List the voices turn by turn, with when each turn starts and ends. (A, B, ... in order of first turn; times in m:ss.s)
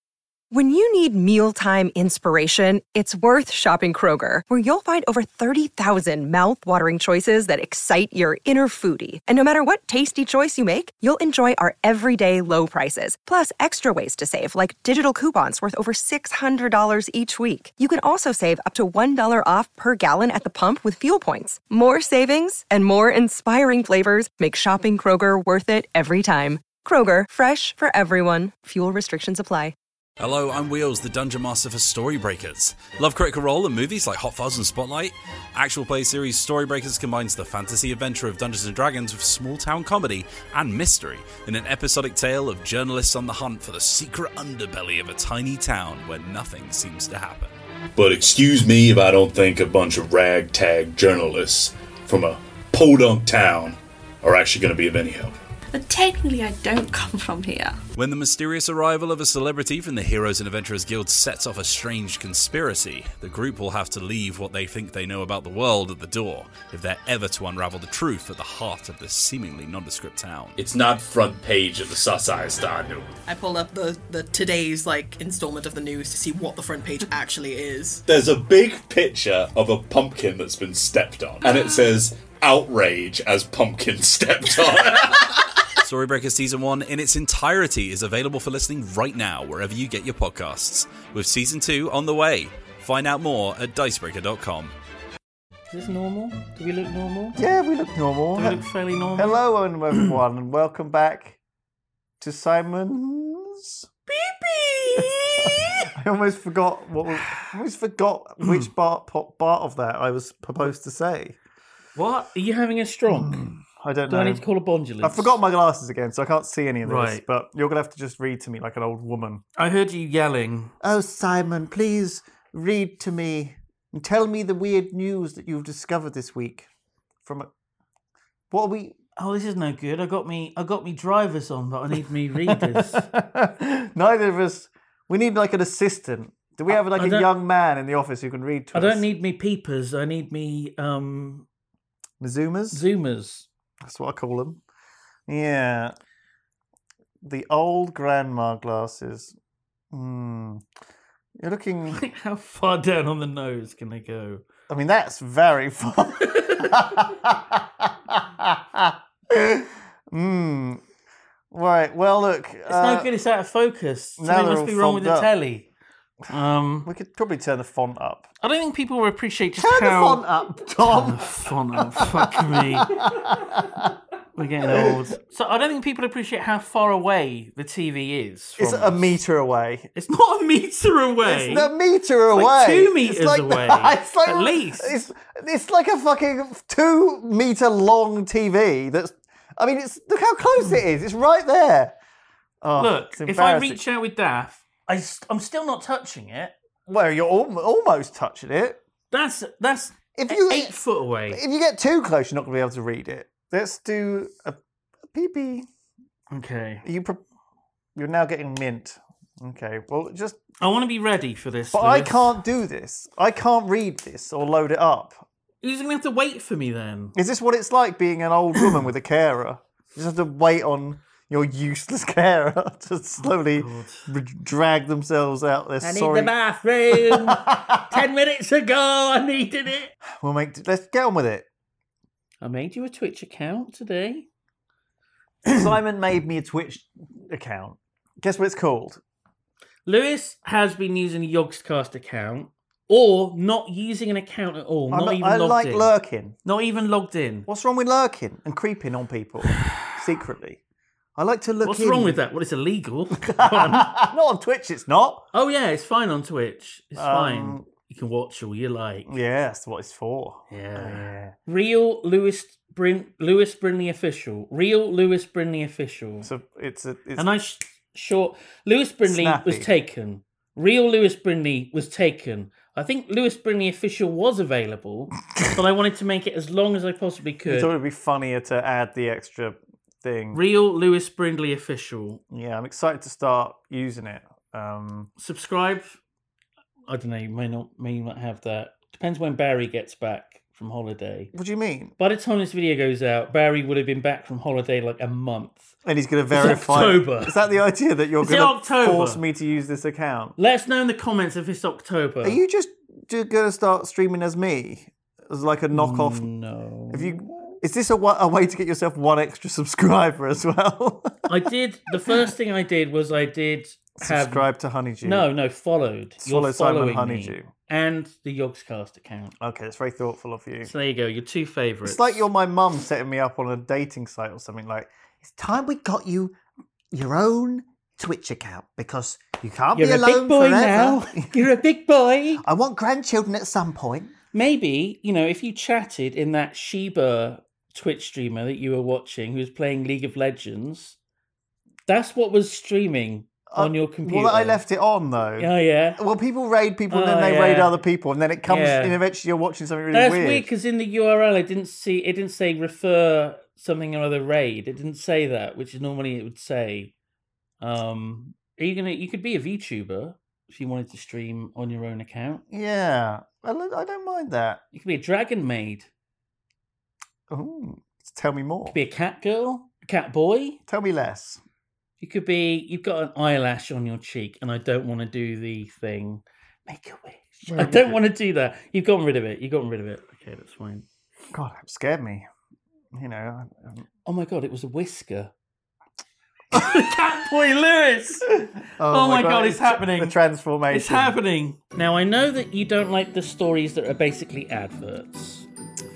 0:00.5-0:29.7 A
0:30.2-0:49.3 B
0:49.4-0:51.1 C
0:50.4-0:53.7 B
0:54.2-0:55.0 B
0:54.6-0:55.3 C
0:55.7-0:57.8 D
0:57.9-1:13.0 B
1:11.2-1:11.8 C
1:13.2-1:18.0 E
1:18.1-1:19.6 B
1:19.7-1:20.1 C
1:20.3-1:22.0 B
1:20.7-1:21.0 C
1:22.5-1:24.8 C
1:23.0-1:23.5 B
1:24.1-1:25.1 B
1:25.8-1:34.7 B
1:35.7-1:37.4 F
1:37.4-1:38.6 G
1:38.3-1:39.4 F
1:39.2-1:41.4 G
1:42.2-1:43.8 G
1:44.1-1:45.9 F
1:45.0-1:51.4 G
1:48.4-1:48.7 F
1:52.0-1:53.5 F
1:53.1-1:54.4 G
1:54.1-1:55.4 F
1:55.0-1:59.4 G
1:56.8-1:57.2 F
1:59.6-2:00.7 F
2:00.8-2:06.7 G
2:07.2-2:07.5 G
2:08.5-2:09.0 G
2:09.2-2:13.1 F
2:12.5-2:19.0 G
2:16.7-2:17.3 F
2:18.7-2:21.5 F
2:22.2-2:22.8 G
2:22.7-2:23.5 F
2:23.8-2:24.6 G
2:25.3-2:25.9 G
2:27.2-2:29.4 G
2:29.9-2:30.6 G
2:31.4-2:32.0 G
2:31.9-2:34.4 F
2:34.7-2:40.8 G
2:36.4-2:36.7 F
2:41.5-2:43.1 G
2:42.6-2:45.7 F
2:44.2-2:45.3 G
2:46.3-2:46.9 F
2:46.8-2:48.3 G
2:48.4-2:53.0 F
2:49.6-2:54.0 G
2:54.3-2:59.2 F
2:54.6-2:55.0 G
2:58.6-2:59.9 G
2:59.9-3:01.7 F
3:01.2-3:12.0 G
3:02.4-3:05.0 F
3:12.6-3:13.8 G
3:12.8-3:16.5 F
3:16.9-3:18.8 G
3:19.1-3:21.4 F
3:20.1-3:20.8 G
3:21.3-3:24.6 G
3:25.1-3:25.7 G
3:26.3-3:26.8 F
3:26.8-3:27.2 G
3:28.0-3:30.4 G
3:30.6-3:32.4 F
3:31.7-3:35.3 G
3:35.6-3:37.2 F
3:37.1-3:46.3 G
3:43.4-3:44.1 F
3:45.8-3:49.9 F
3:46.9-3:48.0 G
3:50.0-3:51.4 G
3:52.4-3:54.3 F
3:55.4-3:59.0 G
3:59.8-4:05.9 F
4:04.9-4:06.4 G
4:06.4-4:07.5 F
4:07.5-4:10.6 G
4:11.2-4:12.2 G
4:11.6-4:14.0 F
4:13.2-4:15.2 G
4:15.3-4:19.2 F
4:17.0-4:17.6 G
4:19.0-4:21.4 G
4:20.5-4:26.3 F
4:26.2-4:27.3 G
4:27.2-4:37.7 F
4:29.0-4:29.7 G
4:37.4-4:40.4 G
4:40.3-4:42.2 F
4:42.3-4:45.1 G
4:45.2-4:46.0 F
4:46.9-4:51.3 F
4:51.3-4:51.9 G
4:52.0-4:55.7 F
4:55.8-5:00.4 G
4:56.3-4:57.4 F
4:58.2-4:59.2 F
5:00.4-5:02.4 F
5:02.2-5:06.3 G
5:05.7-5:07.2 F
5:06.9-5:12.3 G
5:11.3-5:14.5 F
5:14.0-5:15.3 G
5:15.0-5:19.3 F
5:16.2-5:17.5 G
5:19.4-5:20.7 G
5:20.6-5:22.2 F
5:21.8-5:26.4 G
5:26.9-5:31.5 G
5:29.7-5:32.4 F
5:32.4-5:34.1 G
5:34.3-5:41.0 F
5:41.9-5:44.6 F
5:43.5-5:50.5 G
5:45.4-5:46.0 F
5:46.9-5:47.8 F
5:48.4-5:49.0 F
5:49.9-5:56.9 F
5:57.6-6:02.4 F
6:02.5-6:04.6 G
6:04.7-6:05.9 F
6:07.3-6:08.8 G
6:08.7-6:10.6 F
6:10.7-6:11.4 G
6:12.0-6:20.8 F
6:17.4-6:18.0 G
6:21.3-6:22.3 G
6:22.9-6:23.8 G
6:24.0-6:25.3 F
6:26.5-6:30.2 F
6:26.5-6:26.8 G
6:28.8-6:31.2 G
6:30.7-6:35.5 F